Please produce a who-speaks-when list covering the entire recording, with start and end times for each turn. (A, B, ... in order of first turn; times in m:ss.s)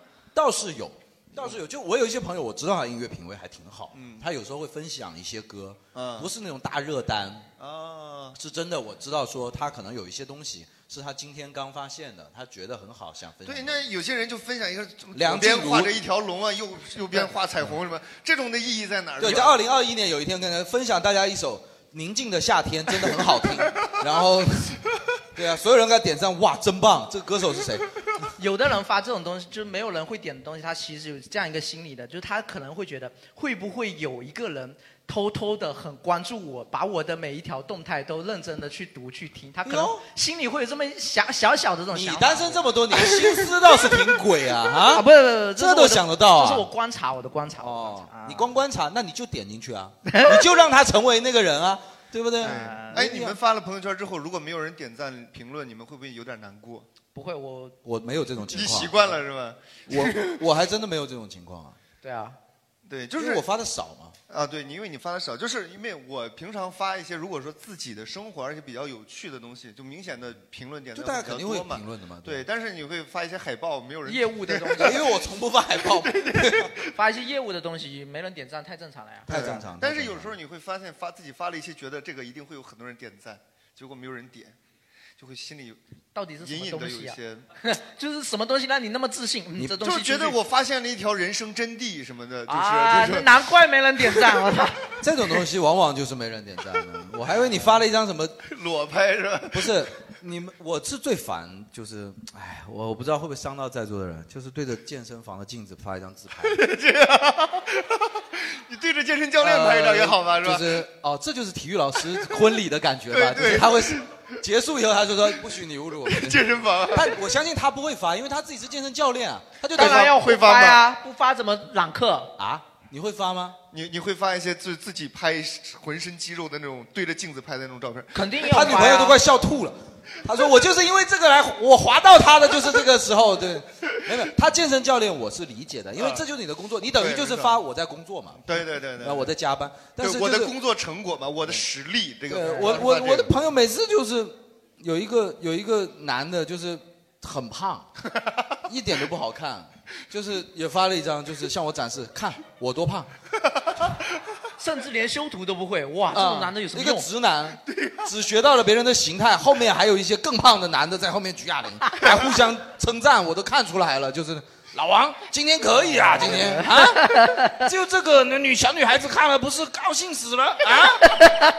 0:00.3-0:07.5 A
0:03.9-0:04.2 B
0:05.9-0:06.3 B
0:07.6-0:08.4 B
0:08.3-0:13.8 A
0:13.4-0:19.6 B
0:15.1-0:16.0 A
0:19.2-0:27.9 A
0:28.4-0:43.5 C
0:39.6-0:40.0 A
0:41.9-0:46.7 A
0:44.9-0:48.5 C
0:47.6-0:53.4 A
0:50.1-0:50.4 C
0:52.4-0:53.1 C
0:52.4-0:56.9 B
0:57.1-0:57.8 C
0:57.8-0:59.2 A
0:58.5-1:00.4 B
0:59.9-1:01.8 A
1:02.0-1:02.4 C
1:02.8-1:03.4 B
1:03.2-1:04.2 A
1:04.3-1:15.1 B
1:10.9-1:12.4 A
1:14.0-1:15.0 C
1:14.8-1:16.7 A
1:15.8-1:16.8 B
1:16.9-1:19.6 C
1:19.3-1:20.3 A
1:19.3-1:24.6 B
1:25.2-1:25.8 B
1:26.1-1:30.4 C
1:26.4-1:27.4 B
1:29.8-1:33.3 B
1:32.5-1:35.0 C
1:35.0-1:38.4 A
1:38.4-1:39.8 B
1:39.5-1:46.6 A
1:46.4-1:50.8 B
1:49.4-2:00.2 A
1:53.1-1:54.1 B
1:56.0-1:57.2 B
1:59.7-2:02.3 C
1:59.8-2:00.8 B
2:02.4-2:03.6 A
2:03.7-2:08.2 B
2:08.1-2:09.2 C
2:08.5-2:20.6 A
2:16.0-2:16.2 B
2:17.0-2:17.6 B
2:18.4-2:19.3 B
2:20.0-2:23.3 B
2:22.3-2:27.9 A
2:22.4-2:23.0 C
2:28.6-2:33.1 A
2:34.6-2:37.1 C
2:36.1-2:51.3 A
2:37.7-2:38.0 B
2:46.0-2:47.6 C